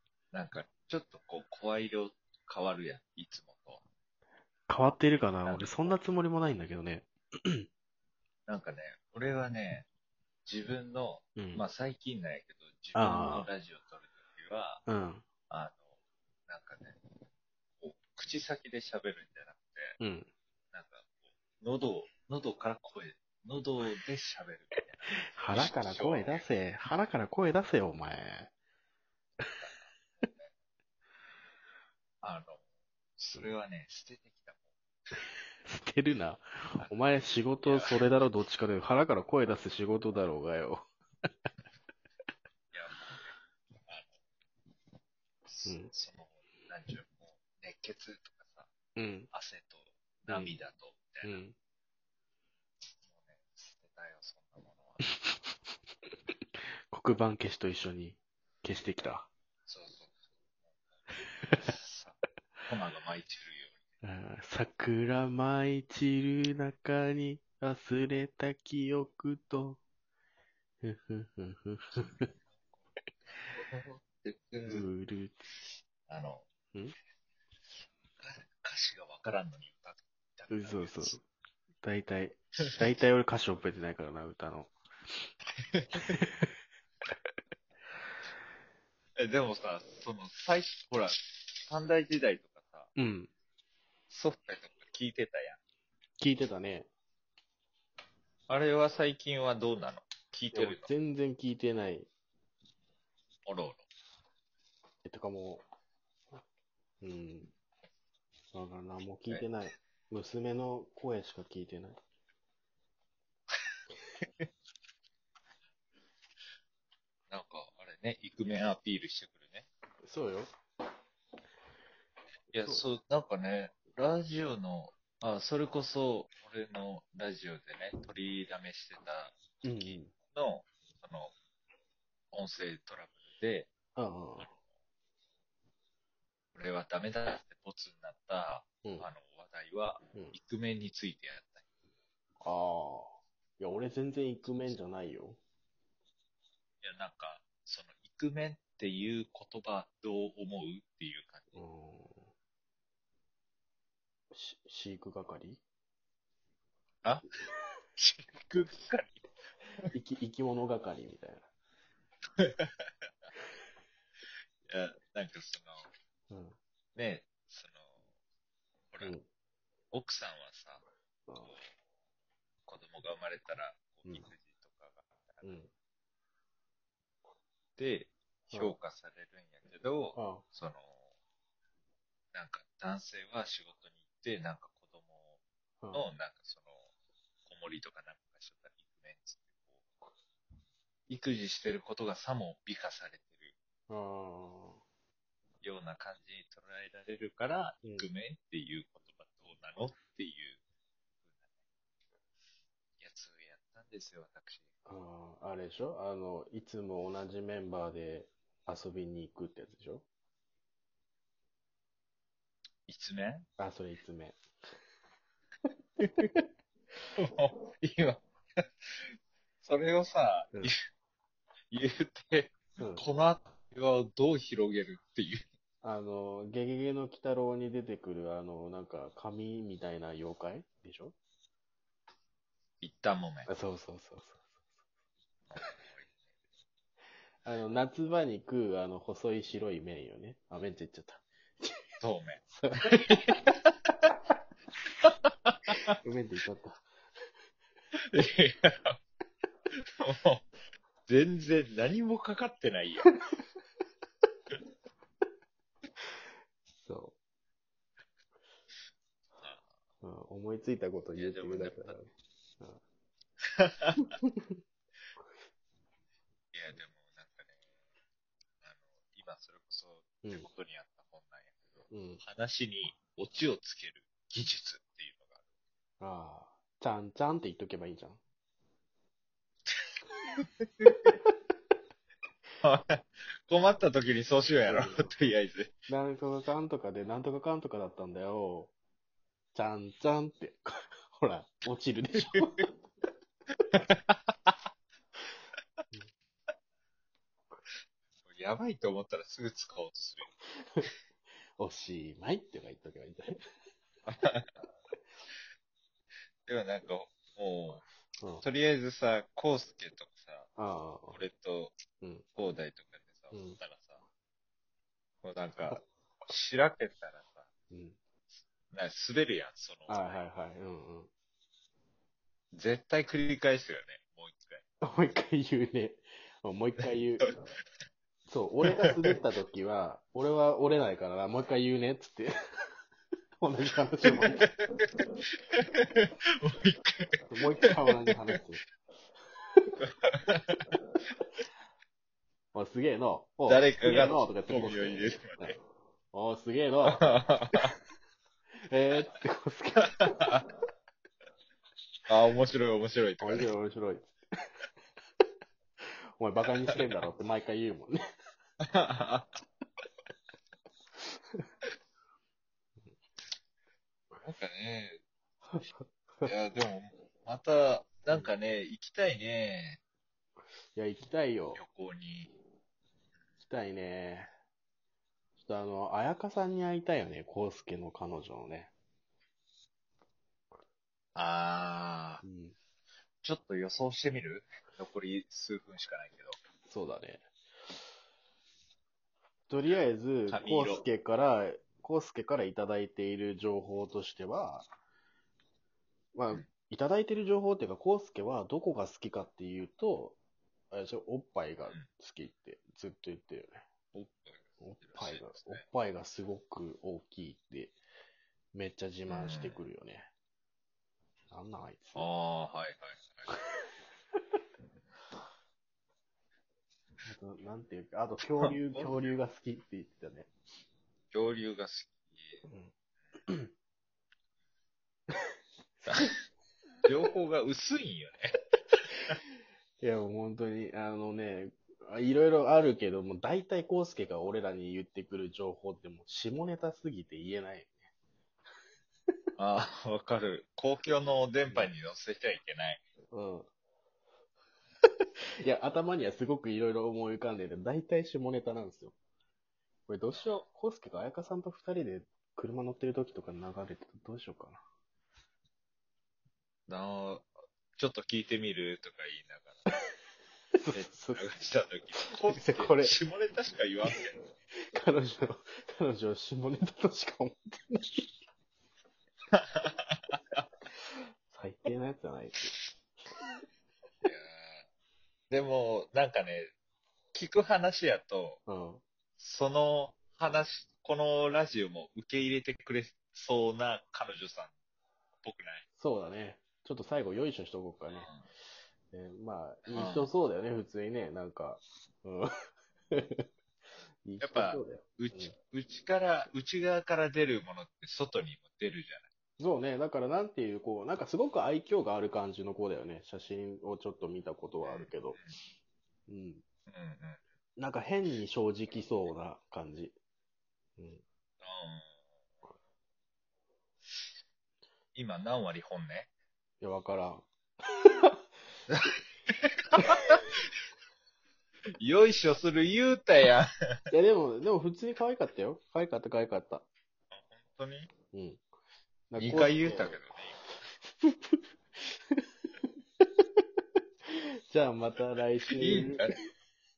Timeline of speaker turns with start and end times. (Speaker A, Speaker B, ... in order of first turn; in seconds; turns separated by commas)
Speaker A: 0.3-3.8, Speaker B: 4.7-7.7, Speaker A: 5.2-6.0, Speaker A: 8.5-9.9, Speaker A: 10.4-14.8, Speaker B: 11.3-11.7, Speaker B: 12.9-13.5, Speaker B: 14.9-15.2, Speaker A: 15.5-15.8, Speaker A: 16.5-16.9, Speaker A: 17.8-19.9, Speaker B: 20.0-20.3, Speaker A: 20.7-21.1, Speaker A: 21.6-26.5, Speaker B: 25.1-28.5, Speaker A: 29.4-30.5, Speaker A: 32.2-32.6, Speaker A: 33.2-34.7, Speaker B: 35.6-40.8, Speaker A: 37.6-38.1, Speaker A: 42.7-43.3, Speaker A: 43.9-44.1, Speaker A: 45.5-48.7, Speaker B: 45.6-45.9, Speaker B: 49.0-49.3, Speaker A: 49.3-51.4, Speaker B: 50.3-50.5, Speaker B: 51.2-51.5, Speaker A: 53.0-55.0, Speaker B: 56.9-59.3, Speaker A: 59.7-60.3, Speaker A: 61.5-63.8, Speaker B: 64.0-69.8, Speaker B: 70.8-72.3, Speaker A: 72.0-74.9, Speaker B: 74.6-75.4, Speaker A: 76.1-76.5, Speaker A: 78.2-81.2, Speaker B: 80.5-81.2, Speaker B: 81.8-84.7, Speaker A: 85.6-86.2, Speaker B: 86.1-86.5, Speaker A: 89.2-92.9, Speaker B: 93.0-93.3, Speaker A: 94.1-95.6, Speaker B: 96.2-96.9, Speaker A: 98.5-100.9, Speaker B: 100.5-102.1, Speaker A: 103.5-103.8, Speaker B: 105.0-105.6, Speaker B: 107.0-107.5, Speaker B: 108.5-112.0, Speaker A: 117.3-119.7, Speaker B: 120.0-120.5, Speaker A: 122.5-131.3, Speaker B: 129.6-130.1, Speaker A: 132.3-133.7, Speaker B: 133.9-134.5, Speaker A: 136.5-141.6, Speaker B: 142.4-145.4, Speaker A: 146.8-151.6, Speaker B: 151.5-152.3, Speaker B: 154.3-155.6, Speaker A: 158.0-159.2, Speaker B: 159.9-161.4, Speaker A: 162.4-162.9, Speaker A: 164.7-165.9, Speaker B: 166.3-166.6, Speaker A: 166.9-167.9, Speaker A: 169.9-170.8, Speaker B: 171.3-171.6, Speaker A: 172.7-175.6, Speaker B: 175.4-175.7, Speaker A: 177.8-181.0, Speaker B: 178.5-178.8, Speaker B: 180.1-180.4, Speaker A: 182.3-185.4, Speaker A: 185.9-186.8, Speaker A: 187.4-189.8, Speaker A: 191.1-193.5, Speaker B: 193.9-194.8, Speaker A: 195.6-200.6, Speaker B: 197.8-198.1, Speaker A: 203.0-204.6, Speaker B: 204.8-210.0, Speaker A: 212.9-213.5, Speaker B: 213.6-214.4, Speaker A: 216.0-216.3, Speaker A: 217.2-218.2, Speaker A: 219.6-220.8, Speaker A: 221.7-225.4, Speaker B: 222.8-223.0, Speaker B: 225.8-231.1, Speaker A: 232.8-233.5, Speaker B: 233.4-234.6, Speaker A: 235.5-236.1, Speaker B: 237.4-241.9, Speaker A: 242.0-243.6, Speaker B: 242.5-243.2, Speaker A: 245.0-245.8, Speaker B: 246.0-246.8, Speaker A: 248.1-249.0, Speaker A: 250.0-250.4, Speaker A: 251.1-253.1, Speaker B: 256.8-257.1, Speaker B: 260.0-262.8, Speaker A: 261.1-262.0, Speaker A: 263.6-264.0, Speaker A: 266.5-267.6, Speaker A: 268.6-275.4, Speaker B: 271.9-272.2, Speaker B: 276.0-278.2, Speaker A: 280.4-281.1, Speaker A: 282.6-285.7, Speaker B: 284.6-285.2, Speaker B: 285.9-288.7, Speaker B: 289.5-292.7, Speaker A: 293.9-294.5, Speaker A: 298.2-300.3, Speaker B: 301.6-303.4, Speaker A: 304.1-304.4, Speaker A: 306.4-307.8, Speaker B: 308.2-308.4, Speaker A: 308.4-310.5, Speaker B: 310.6-311.2, Speaker A: 311.1-311.8, Speaker B: 312.0-312.2, Speaker A: 312.4-314.0, Speaker B: 313.3-313.6, Speaker A: 315.2-317.5, Speaker B: 317.7-318.0, Speaker A: 318.7-320.2, Speaker B: 319.9-321.1, Speaker A: 322.5-324.6, Speaker B: 324.8-327.3, Speaker A: 326.8-327.3, Speaker B: 328.3-332.3, Speaker A: 328.7-329.1, Speaker B: 333.4-334.5, Speaker A: 334.1-334.8, Speaker A: 335.5-338.2, Speaker B: 337.3-338.6, Speaker A: 339.9-340.8, Speaker B: 342.5-345.6, Speaker A: 343.4-345.6, Speaker B: 346.1-347.8, Speaker A: 346.9-347.6, Speaker B: 348.7-350.2, Speaker A: 350.0-350.4, Speaker A: 352.1-353.5, Speaker B: 353.2-354.2, Speaker B: 356.2-358.0, Speaker A: 358.7-359.3, Speaker A: 364.2-365.0, Speaker A: 366.2-369.8, Speaker B: 370.7-371.6, Speaker A: 371.5-372.3, Speaker B: 373.4-374.3, Speaker B: 375.4-378.7, Speaker A: 381.1-382.2, Speaker B: 382.2-382.6, Speaker A: 383.2-386.4, Speaker B: 386.6-387.3, Speaker B: 389.5-394.7, Speaker A: 390.3-390.8, Speaker B: 396.1-400.2, Speaker B: 400.7-403.6, Speaker A: 403.9-405.6, Speaker B: 404.6-407.8, Speaker B: 408.5-410.1, Speaker A: 409.1-409.6, Speaker B: 411.3-412.1, Speaker A: 411.9-413.3, Speaker B: 417.0-420.3, Speaker A: 418.4-419.1, Speaker A: 421.1-422.4, Speaker B: 422.5-422.7, Speaker A: 425.9-426.1, Speaker A: 426.8-428.3, Speaker A: 428.9-429.2, Speaker B: 429.8-437.9, Speaker A: 439.4-442.8, Speaker B: 443.1-443.5, Speaker B: 445.4-448.9, Speaker B: 449.9-454.6, Speaker A: 450.1-450.4, Speaker A: 456.7-459.6, Speaker B: 460.5-461.3, Speaker A: 460.7-464.1, Speaker B: 462.2-463.0, Speaker B: 464.7-468.0, Speaker A: 469.3-470.4, Speaker B: 471.3-472.5, Speaker A: 474.0-474.6, Speaker A: 475.3-476.5, Speaker A: 477.1-478.4, Speaker B: 478.5-478.8, Speaker A: 479.2-484.5, Speaker A: 485.2-485.6, Speaker B: 485.8-488.1, Speaker A: 488.0-488.2, Speaker B: 488.9-492.3, Speaker A: 489.7-490.1, Speaker B: 492.9-493.2, Speaker B: 494.0-495.3, Speaker A: 494.2-499.1, Speaker B: 499.4-505.2, Speaker A: 504.6-505.4, Speaker B: 506.1-506.4, Speaker A: 506.7-507.2, Speaker B: 507.6-509.9, Speaker B: 510.8-511.0, Speaker A: 511.4-511.9, Speaker A: 514.9-516.1, Speaker B: 516.6-517.3, Speaker A: 519.8-520.2, Speaker A: 521.8-523.5, Speaker B: 523.9-526.7, Speaker A: 527.1-527.9, Speaker B: 528.1-528.4, Speaker B: 529.1-532.6, Speaker A: 529.1-530.4, Speaker B: 534.1-536.1, Speaker A: 535.4-536.1